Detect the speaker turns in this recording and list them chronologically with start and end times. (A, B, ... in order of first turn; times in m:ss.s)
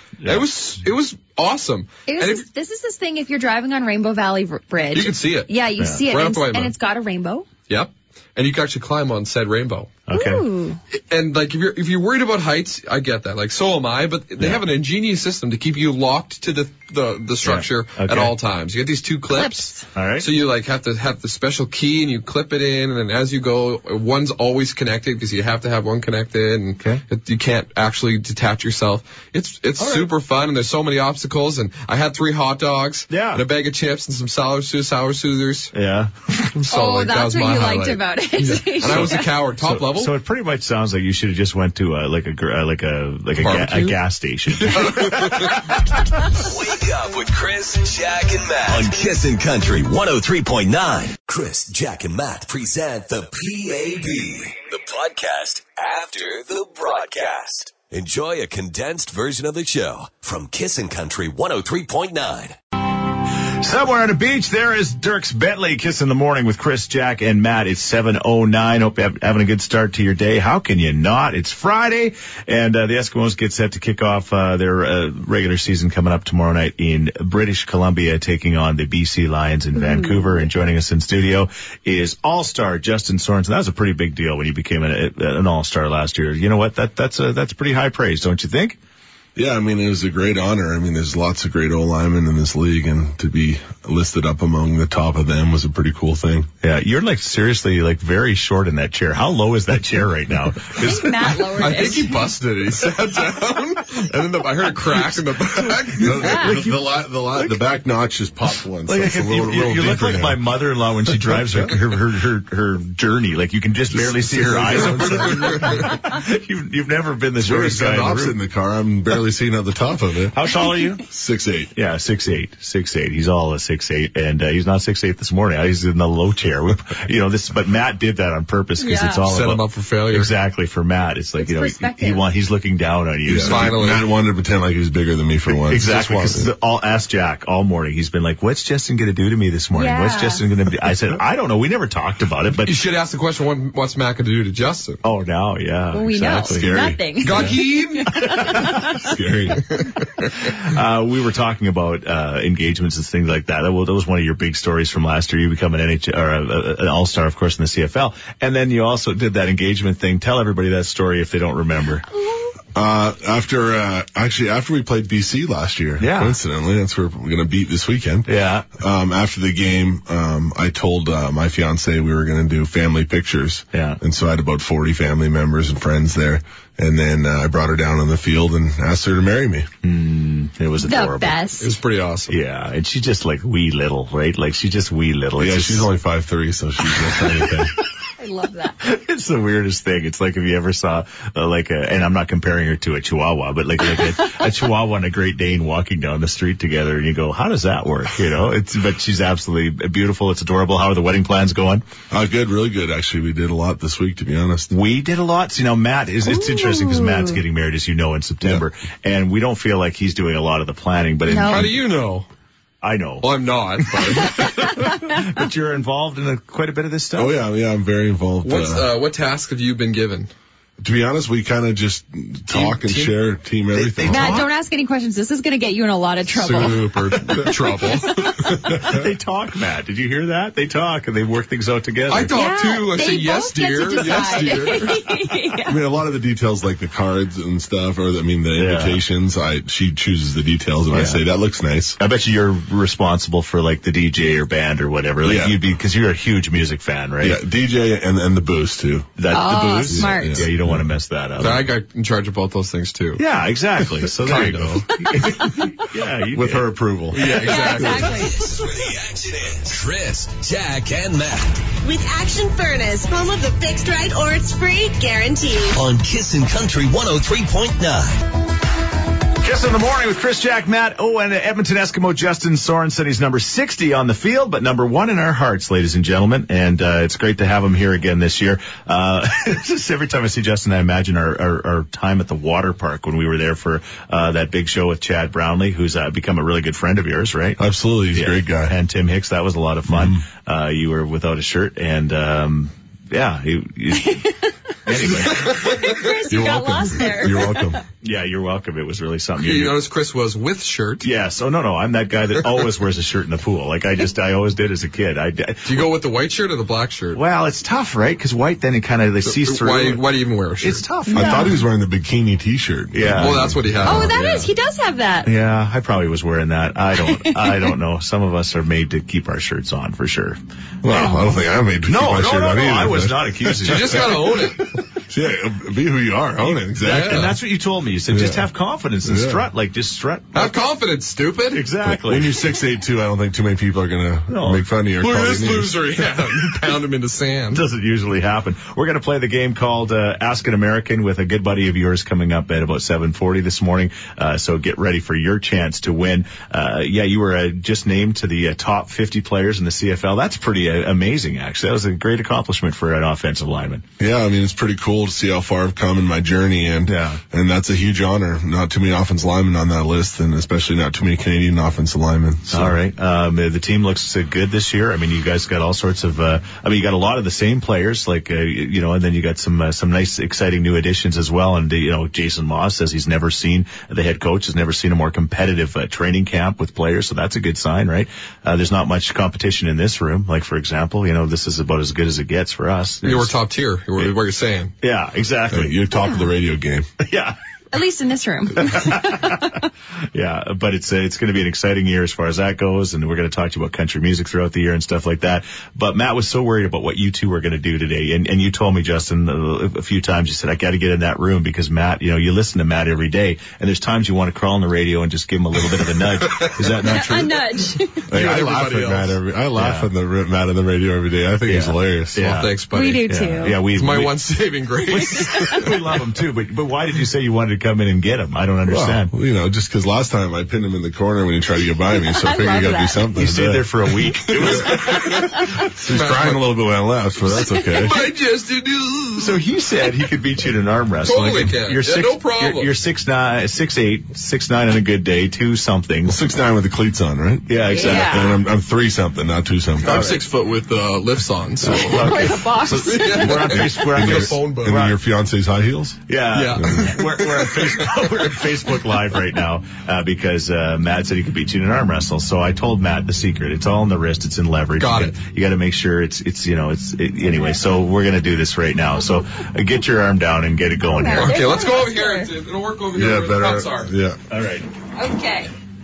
0:00.2-0:02.4 A
0:02.1-0:07.5 B
0:04.9-0:05.5 A
0:05.8-0:06.0 C
0:06.1-0:06.7 A
0:07.7-0:10.0 A
0:10.1-0:10.4 C
0:10.1-0:10.8 B
0:11.1-0:35.7 A
0:17.4-0:18.3 C
0:19.3-0:19.9 B
0:20.0-0:20.3 C
0:29.8-0:30.1 C
0:33.1-0:33.4 C
0:35.7-0:36.6 C
0:36.6-0:40.1 A
0:36.7-0:39.3 B
0:38.9-0:45.8 C
0:43.4-0:44.0 A
0:44.6-0:45.6 A
0:46.3-1:02.6 D
1:03.6-1:28.8 C
1:19.8-1:20.3 B
1:29.4-1:36.5 E
1:36.6-1:41.4 C
1:40.8-1:42.2 B
1:41.3-1:46.4 A
1:46.0-1:50.4 E
1:46.2-1:46.6 B
1:46.4-1:46.8 C
1:48.9-1:58.4 C
1:51.2-1:51.7 E
1:53.9-1:55.9 E
1:54.7-1:55.9 A
1:57.4-2:00.4 E
2:00.3-2:01.0 C
2:01.1-2:01.7 E
2:01.8-2:13.8 C
2:08.8-2:09.2 B
2:09.3-2:10.3 A
2:11.4-2:12.2 B
2:13.3-2:16.5 E
2:13.4-2:14.1 A
2:15.6-2:22.8 C
2:19.7-2:20.4 B
2:22.6-2:25.0 A
2:25.0-2:26.8 C
2:25.9-2:29.1 B
2:26.4-2:27.1 E
2:27.2-2:28.4 A
2:28.9-2:29.7 E
2:29.7-2:30.2 A
2:30.5-2:42.0 C
2:42.8-2:59.7 E
2:46.0-2:46.4 C
2:48.3-2:48.7 C
2:53.7-2:54.0 C
2:59.8-3:01.4 C
3:00.8-3:01.7 B
3:01.6-3:02.4 A
3:02.3-3:05.9 C
3:05.4-3:07.7 E
3:08.2-3:08.8 B
3:08.8-3:21.9 C
3:22.1-3:24.7 E
3:24.7-3:31.8 C
3:26.3-3:27.4 B
3:31.3-3:31.7 B
3:31.5-3:32.3 A
3:32.8-3:33.3 C
3:33.2-3:34.6 A
3:33.9-3:37.4 C
3:37.2-3:38.9 E
3:38.4-3:40.3 A
3:40.8-3:44.5 E
3:42.5-3:43.2 A
3:43.7-3:44.5 C
3:44.0-3:46.9 B
3:46.4-3:48.6 A
3:48.7-3:49.0 E
3:48.8-3:52.4 C
3:52.1-3:55.0 A
3:52.3-3:55.8 B
3:55.6-4:02.0 E
3:58.6-3:59.0 C
4:00.9-4:01.2 C
4:02.0-4:07.4 C
4:05.2-4:05.6 E
4:07.2-4:09.2 E
4:09.2-4:11.7 C
4:09.3-4:10.5 B
4:09.9-4:10.8 E
4:11.4-4:13.2 A
4:13.2-4:16.7 C
4:14.2-4:14.9 A
4:14.3-4:14.6 E
4:16.3-4:17.9 E
4:17.1-4:18.3 A
4:17.3-4:18.6 B
4:18.1-4:21.7 D
4:21.8-4:25.8 F
4:25.7-4:28.2 D
4:29.4-4:47.6 C
4:47.6-4:48.8 E
4:48.1-4:54.3 C
4:49.9-4:50.2 E
4:54.9-4:55.6 C
4:55.6-4:57.8 B
4:56.3-4:57.8 E
4:58.0-4:59.8 C
4:59.4-5:01.1 A
5:01.0-5:05.9 C
5:05.6-5:07.2 A
5:07.1-5:10.0 C
5:09.2-5:10.9 A
5:10.6-5:11.5 C
5:11.1-5:11.6 B
5:11.1-5:14.1 E
5:12.9-5:13.6 C
5:13.2-5:14.5 A
5:13.8-5:15.3 B
5:15.2-5:20.4 C
5:20.8-5:27.3 E
5:20.9-5:21.3 B
5:21.9-5:24.4 C
5:23.6-5:24.6 A
5:26.8-5:30.6 C
5:26.8-5:27.3 A
5:28.1-5:28.4 E
5:29.0-5:29.4 E
5:30.3-5:31.7 A
5:31.5-5:32.4 C
5:31.8-5:35.9 E
5:34.3-5:34.6 C
5:35.0-5:37.6 A
5:37.5-5:53.8 C
5:54.0-6:02.7 E
5:56.9-5:57.2 C
6:02.5-6:23.4 C
6:23.0-6:24.7 A
6:24.8-6:25.8 C
6:25.5-6:26.9 E
6:26.0-6:26.3 B
6:27.0-6:27.4 C
6:27.7-6:29.6 B
6:28.6-6:47.4 C
6:46.8-6:48.1 B
6:48.1-6:52.4 E
6:48.1-6:49.2 A
6:49.6-6:49.9 C
6:51.5-6:54.2 C
6:52.2-6:53.1 A
6:52.7-6:53.6 B
6:53.7-6:55.7 A
6:54.9-6:59.1 C
6:55.2-6:55.6 B
6:58.7-7:03.7 E
7:02.0-7:03.1 B
7:03.2-7:05.3 C
7:04.3-7:08.0 E
7:04.3-7:06.6 A
7:07.5-7:07.8 B
7:07.7-7:09.4 A
7:09.2-7:16.2 C
7:11.0-7:12.7 A
7:16.1-7:20.1 E
7:17.5-7:18.4 C
7:17.6-7:18.4 B
7:19.8-7:24.8 A
7:19.8-7:20.2 C
7:21.6-7:25.0 C
7:21.7-7:23.4 B
7:23.3-7:26.0 E
7:26.1-7:41.4 C
7:26.3-7:28.3 A
7:26.6-7:26.9 E
7:34.8-7:35.2 A
7:40.8-7:42.3 B
7:41.1-7:43.9 A
7:42.9-7:44.2 E
7:44.3-7:44.7 C
7:45.0-7:45.5 B